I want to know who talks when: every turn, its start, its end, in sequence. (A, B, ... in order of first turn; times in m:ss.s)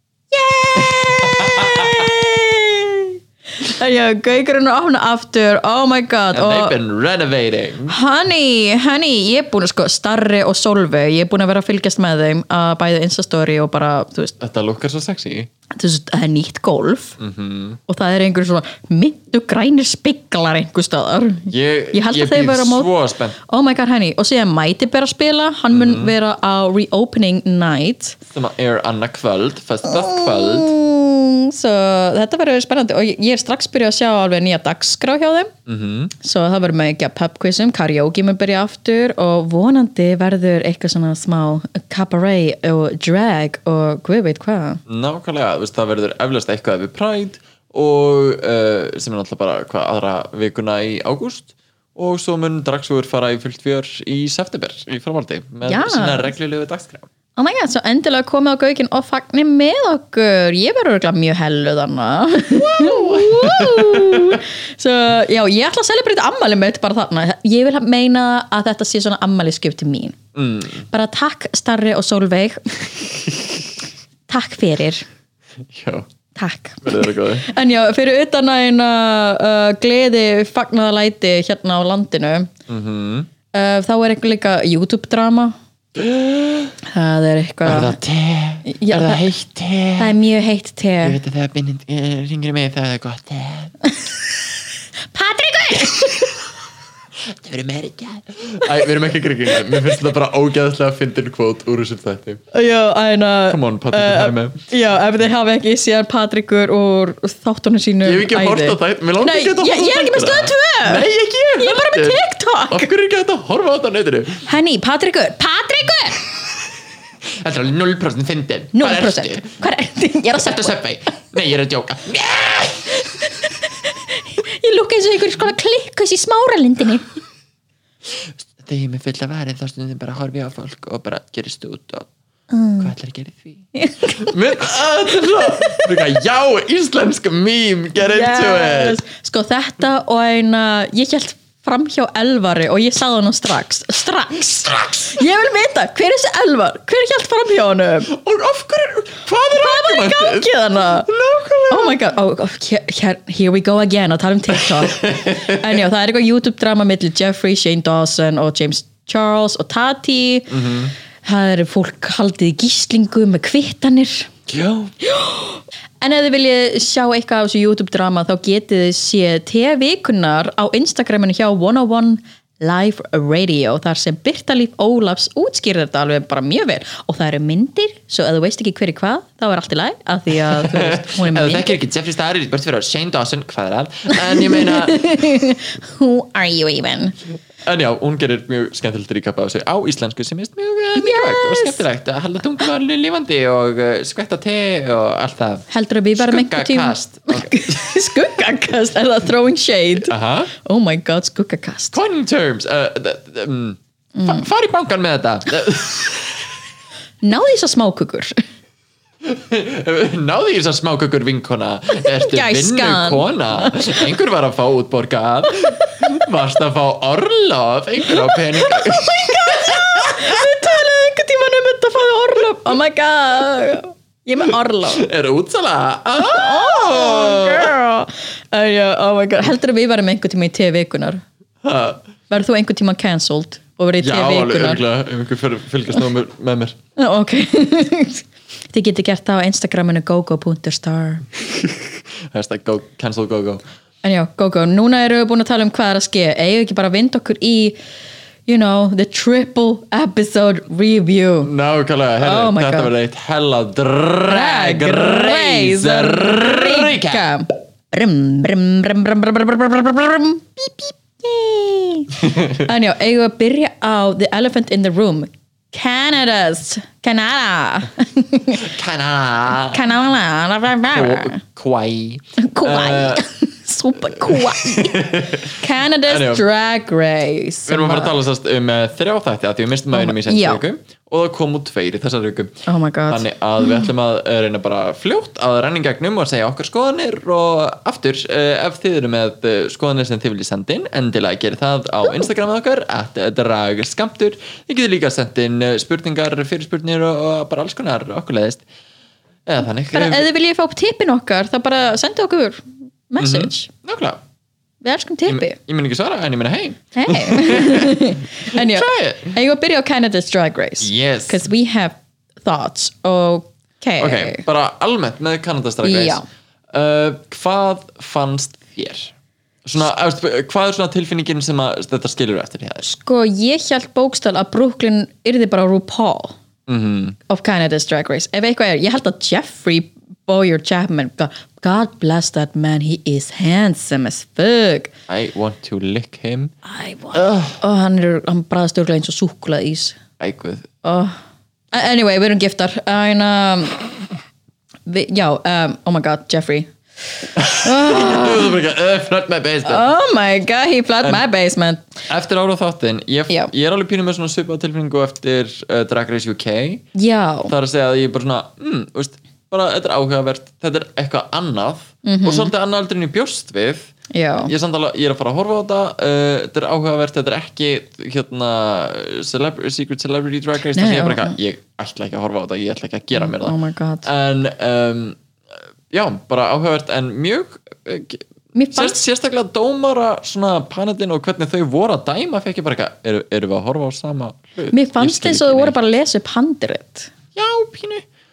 0:00.3-0:06.7 A
0:00.7-0:02.1 B
0:06.3-0:08.0 B
0:07.9-0:14.3 A
0:14.4-0:15.5 B
0:15.8-0:17.2 A
0:17.2-0:17.8 B
0:17.9-0:22.9 A
0:21.5-0:23.4 B
0:23.4-0:28.2 A
0:25.7-0:26.1 B
0:28.3-0:30.7 B
0:29.8-0:35.5 A
0:35.6-0:36.1 B
0:36.2-0:44.8 A
0:44.9-0:57.1 B
0:55.6-0:56.3 A
0:57.4-1:10.2 A
1:02.5-1:04.4 B
1:10.4-1:10.8 B
1:10.9-1:13.1 A
1:14.3-1:15.0 A
1:15.6-1:16.1 B
1:16.3-1:22.5 A
1:16.8-1:17.5 B
1:22.7-1:23.3 B
1:23.5-1:25.6 A
1:26.0-1:26.7 B
1:26.8-1:28.0 A
1:27.6-1:30.1 B
1:28.6-1:29.2 A
1:30.0-1:31.2 A
1:31.0-1:33.7 B
1:35.1-1:36.4 A
1:37.2-1:42.4 B
1:39.6-1:40.0 A
1:42.5-1:52.9 A
1:43.5-1:44.6 B
1:48.0-1:54.4 B
1:54.4-1:56.2 A
1:57.2-1:59.5 B
1:58.7-2:00.8 A
2:00.4-2:03.0 B
2:03.2-2:07.1 A
2:08.0-2:12.1 B
2:12.5-2:12.9 A
2:12.8-2:19.0 B
2:13.7-2:14.3 A
2:15.2-2:15.9 A
2:18.0-2:28.1 A
2:24.7-2:25.2 B
2:28.1-2:32.1 B
2:29.4-2:31.1 A
2:31.7-2:44.3 A
2:34.5-2:35.8 B
2:40.5-2:40.9 B
2:44.5-2:44.9 B
2:45.0-3:01.7 A
3:00.3-3:05.1 B
3:04.1-3:07.2 A
3:07.6-3:17.9 B
3:10.9-3:11.8 A
3:15.7-3:22.0 A
3:20.0-3:20.5 B
3:21.9-3:26.5 B
3:24.1-3:24.5 A
3:27.2-3:28.3 A
3:29.2-3:40.6 B
3:32.0-3:34.0 A
3:35.6-3:36.1 A
3:38.1-3:45.1 A
3:44.8-3:47.7 B
3:46.2-3:51.2 A
3:51.6-3:52.0 B
3:52.3-3:54.8 A
3:54.0-3:56.8 B
3:57.0-4:01.3 A
4:01.4-4:03.6 B
4:04.0-4:07.8 A
4:08.5-4:11.5 A
4:11.4-4:17.3 B
4:12.2-4:12.9 A
4:14.2-4:28.7 A
4:22.2-4:22.7 B
4:28.5-4:29.8 B
4:29.6-4:31.4 A
4:30.9-4:33.2 B
4:32.4-4:38.1 A
4:34.0-4:36.4 B
4:37.7-4:42.5 B
4:39.9-4:40.6 A
4:42.6-4:43.8 A
4:43.1-4:58.6 B
4:59.4-5:00.3 B
4:59.9-5:03.7 A
5:03.2-5:04.2 B
5:04.8-5:05.6 A
5:05.2-5:09.4 B
5:06.9-5:14.4 A
5:10.8-5:11.4 B
5:14.0-5:19.1 B
5:15.8-5:16.2 A
5:19.6-5:22.9 B
5:22.8-5:26.4 A
5:26.7-5:27.2 B
5:27.3-5:34.9 A
5:35.1-5:36.5 B
5:36.6-5:40.0 A
5:37.1-5:37.6 B
5:40.2-5:40.7 B
5:40.8-5:41.2 A
5:41.7-5:43.8 A
5:44.9-5:46.7 A
5:47.4-5:49.9 B
5:47.6-5:48.6 A
5:49.6-5:51.9 A
5:52.1-5:56.8 B
5:56.9-5:57.5 A
5:57.5-6:15.2 B
6:02.0-6:02.5 A
6:04.1-6:04.5 A
6:10.7-6:11.4 A
6:13.1-6:14.1 A
6:15.9-6:25.7 B
6:18.5-6:19.0 A
6:24.7-6:27.1 A
6:27.3-6:28.0 B